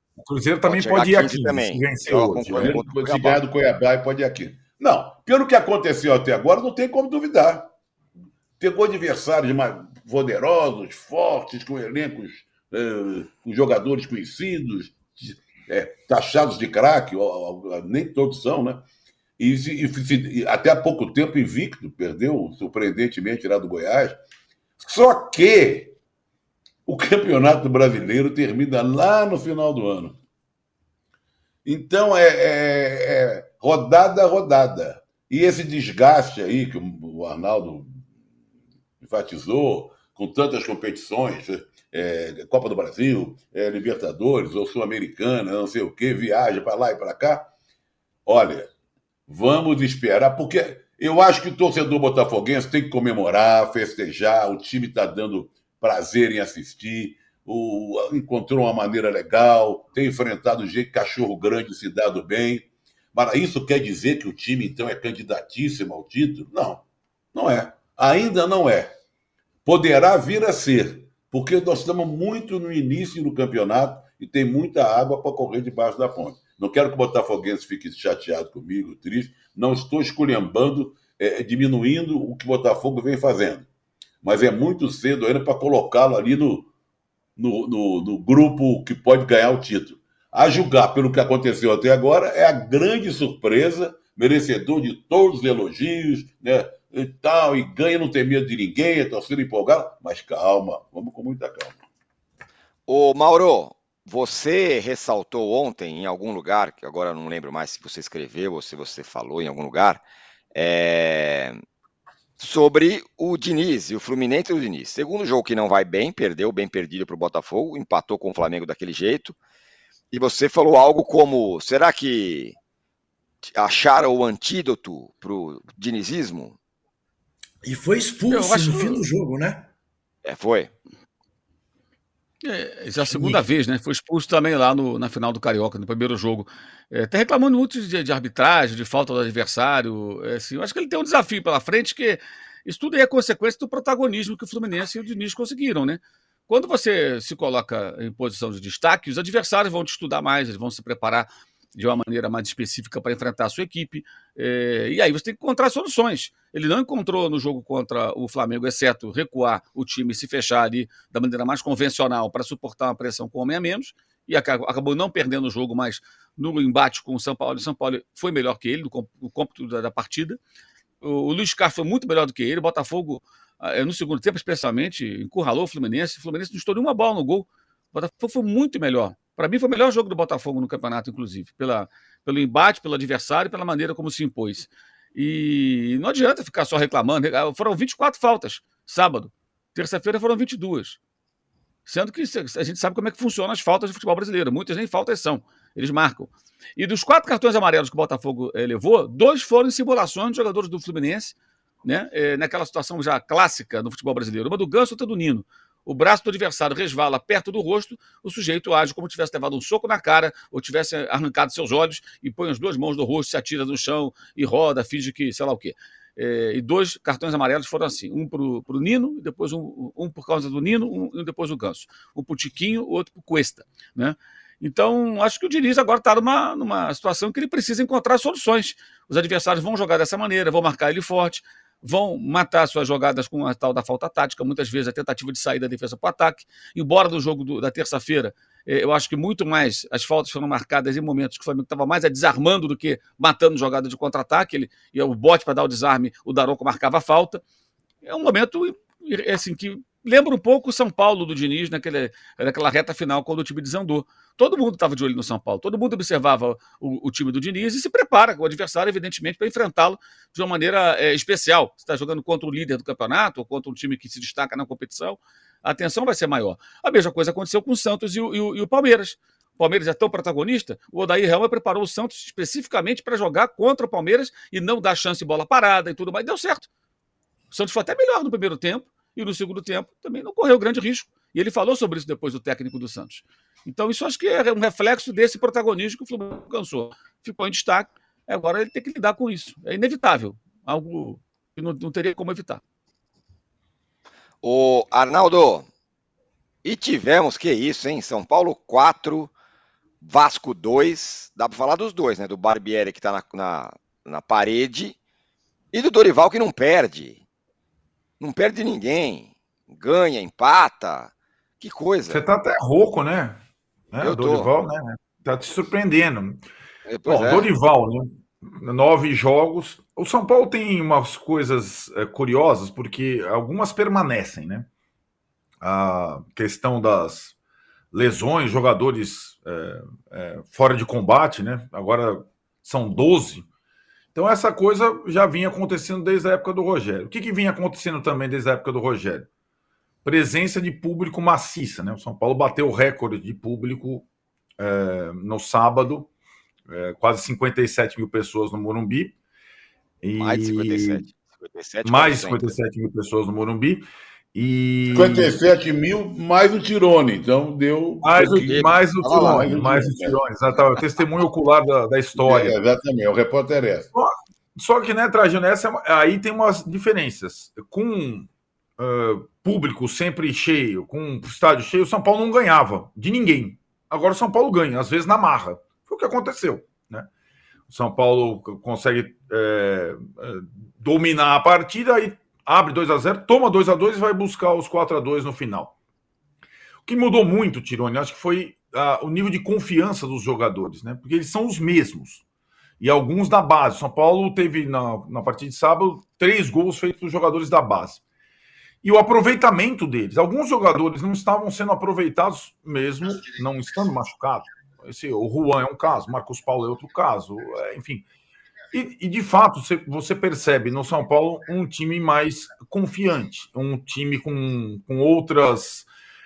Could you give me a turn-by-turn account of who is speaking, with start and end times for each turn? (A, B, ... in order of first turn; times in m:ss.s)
0:00.2-0:02.8 A
0:00.6-0:03.4 B
0:02.5-0:07.7 C
0:08.6-0:18.8 C
0:19.4-0:24.2 C
0:24.8-0:26.0 C
0:26.9-0:30.2 C
0:31.6-0:38.0 C
0:39.0-0:47.5 C
0:48.3-0:48.7 C
0:49.3-1:08.9 C
1:09.6-1:23.7 C
1:24.2-1:26.7 C
1:27.4-1:41.8 C
1:42.9-1:50.0 B
1:50.5-1:51.6 B
1:52.4-1:59.4 B
2:00.1-2:02.6 B
2:03.4-2:06.6 B
2:07.6-2:09.7 D
2:08.3-2:09.0 E
2:10.2-2:10.7 B
2:12.4-2:50.4 E
2:13.0-2:13.4 A
2:51.0-3:11.0 E
3:11.9-4:07.4 E
4:08.0-4:36.7 E
4:37.5-4:52.6 E
4:54.4-4:55.7 B
4:56.6-4:59.3 B
5:00.0-5:05.0 B
5:05.7-5:07.2 B
5:08.2-5:12.2 B
5:12.1-5:13.4 A
5:13.9-5:16.4 A
5:14.0-5:14.5 B
5:16.9-5:17.5 B
5:17.0-5:24.7 A
5:25.6-5:27.3 A
5:27.9-5:33.5 A
5:34.2-5:39.3 A
5:40.0-5:44.1 A
5:44.6-5:46.1 A
5:46.7-5:49.1 A
5:50.0-5:51.1 A
5:50.2-5:52.5 B
5:51.8-5:55.4 A
5:54.9-6:00.2 C
5:58.0-6:02.6 A
5:58.4-5:59.5 B
6:02.2-6:03.9 C
6:03.9-6:17.1 A
6:17.7-6:25.7 A
6:26.9-6:32.2 A
6:32.8-6:38.0 A
6:38.8-6:48.0 A
6:48.7-6:55.9 A